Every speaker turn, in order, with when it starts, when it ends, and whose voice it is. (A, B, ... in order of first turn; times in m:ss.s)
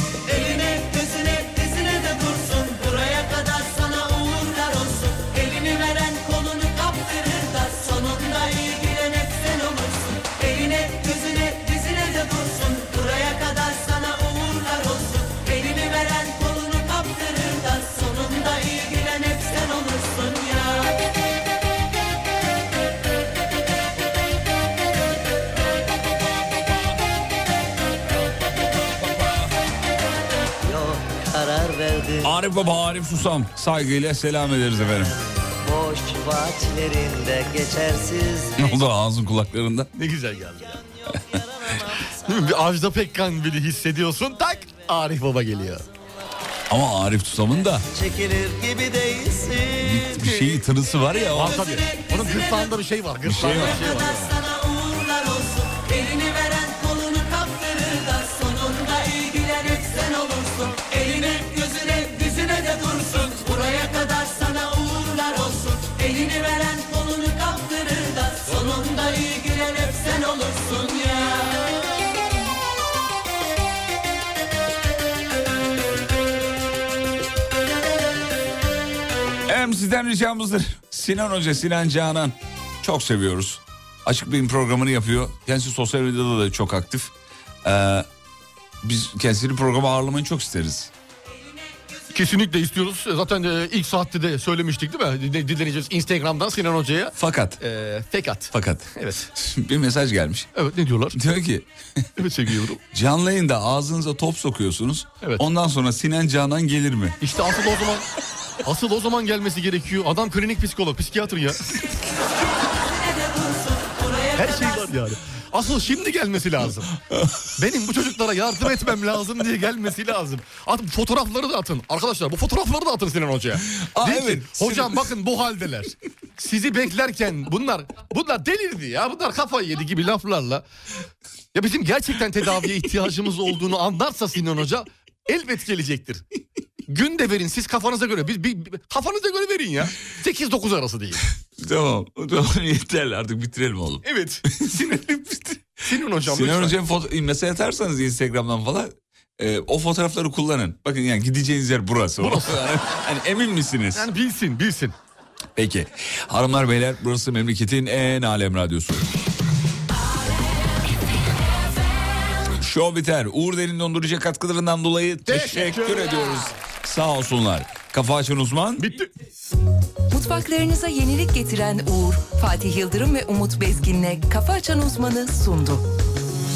0:00.3-0:21.0 A
0:28.7-0:29.5 B
0:30.6-0:32.3 C
0:32.2-0:35.1 B
0:34.9-0:38.8 C
0:38.6-0:39.9 B
0:40.0-0:40.8 D
0:41.3-0:42.0 C
0:42.2-0:45.8 D
0:46.7-0:47.9 B
0:47.9-0:50.1 C
0:49.8-0:51.7 B
0:50.2-0:50.6 D
0:51.3-0:54.3 D
0:51.8-0:52.6 A
0:53.2-0:54.1 B
0:53.8-1:11.7 A
1:19.5-1:27.1 B
1:27.6-1:28.1 B
1:28.8-1:30.9 B
1:32.1-1:39.3 D
1:37.2-1:37.6 B
1:38.5-1:40.5 B
1:40.6-1:41.2 D
1:41.1-1:41.7 B
1:42.2-1:42.8 D
1:42.9-1:47.2 B
1:47.2-1:48.1 D
1:48.6-1:51.6 D
1:52.5-1:54.8 A
1:54.4-1:56.9 D
1:57.1-1:57.4 B
1:57.6-2:10.6 D
2:03.7-2:05.1 B
2:11.5-2:16.2 D
2:16.9-2:21.2 D
2:21.6-2:24.0 B
2:24.0-2:26.8 D
2:24.7-2:25.4 B
2:26.2-2:34.1 B
2:32.2-2:32.6 D
2:34.0-2:35.0 D
2:35.6-2:39.1 B
2:42.5-2:48.9 B
2:45.3-2:46.5 D
2:48.8-2:49.1 D
2:50.1-2:55.8 E